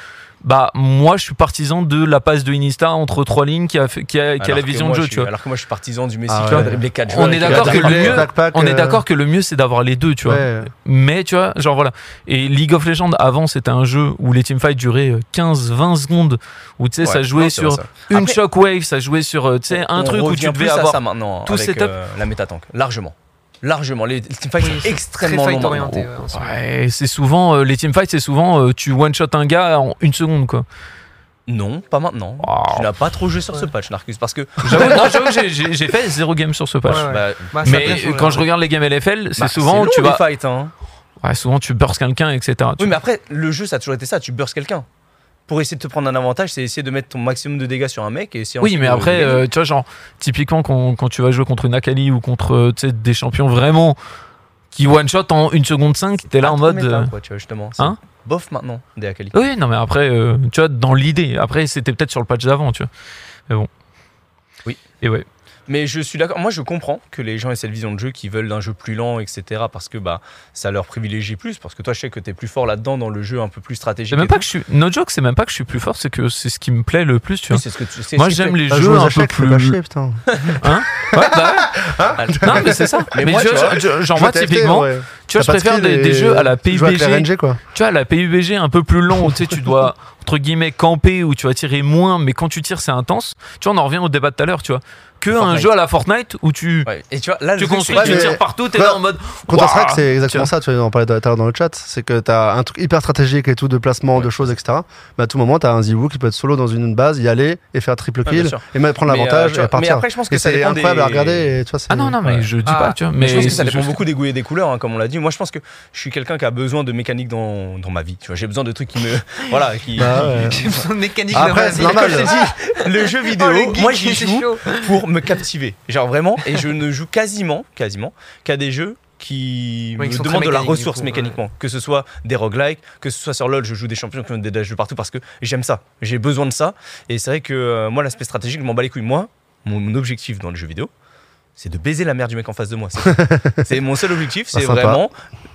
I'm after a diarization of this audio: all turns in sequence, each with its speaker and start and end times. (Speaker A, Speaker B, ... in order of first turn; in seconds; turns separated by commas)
Speaker A: 0.4-5.3, Speaker B: 4.4-8.3, Speaker C: 6.3-6.8, Speaker A: 6.5-21.9, Speaker C: 7.4-9.0, Speaker C: 10.2-10.7, Speaker B: 17.0-18.4, Speaker B: 19.7-26.1, Speaker D: 24.6-26.6, Speaker A: 26.3-30.6, Speaker B: 31.5-35.1, Speaker A: 32.4-32.9, Speaker A: 34.6-37.1, Speaker B: 36.9-38.0, Speaker D: 36.9-38.5, Speaker A: 37.6-40.2, Speaker B: 39.4-40.7, Speaker A: 41.2-43.0, Speaker B: 42.8-44.9, Speaker B: 45.5-49.4, Speaker A: 48.6-54.0, Speaker A: 54.7-57.1, Speaker B: 56.4-59.4, Speaker A: 59.3-62.9, Speaker B: 65.7-74.4, Speaker A: 74.1-77.6, Speaker B: 77.5-78.6, Speaker A: 78.2-79.8, Speaker C: 78.7-80.2, Speaker B: 80.3-80.6, Speaker A: 80.6-81.8, Speaker C: 81.0-83.1, Speaker B: 82.2-83.8, Speaker A: 82.4-96.9, Speaker C: 84.1-87.6, Speaker B: 95.3-95.7, Speaker B: 96.9-98.4, Speaker A: 97.6-100.5, Speaker C: 97.9-112.2, Speaker B: 104.2-104.5, Speaker B: 108.3-111.5, Speaker A: 111.9-114.0, Speaker D: 112.7-113.5, Speaker B: 113.2-140.9, Speaker C: 120.0-120.7, Speaker D: 120.3-125.0, Speaker C: 121.3-122.5, Speaker D: 130.0-131.4, Speaker B: 141.6-145.1, Speaker C: 143.1-143.7, Speaker C: 144.5-145.0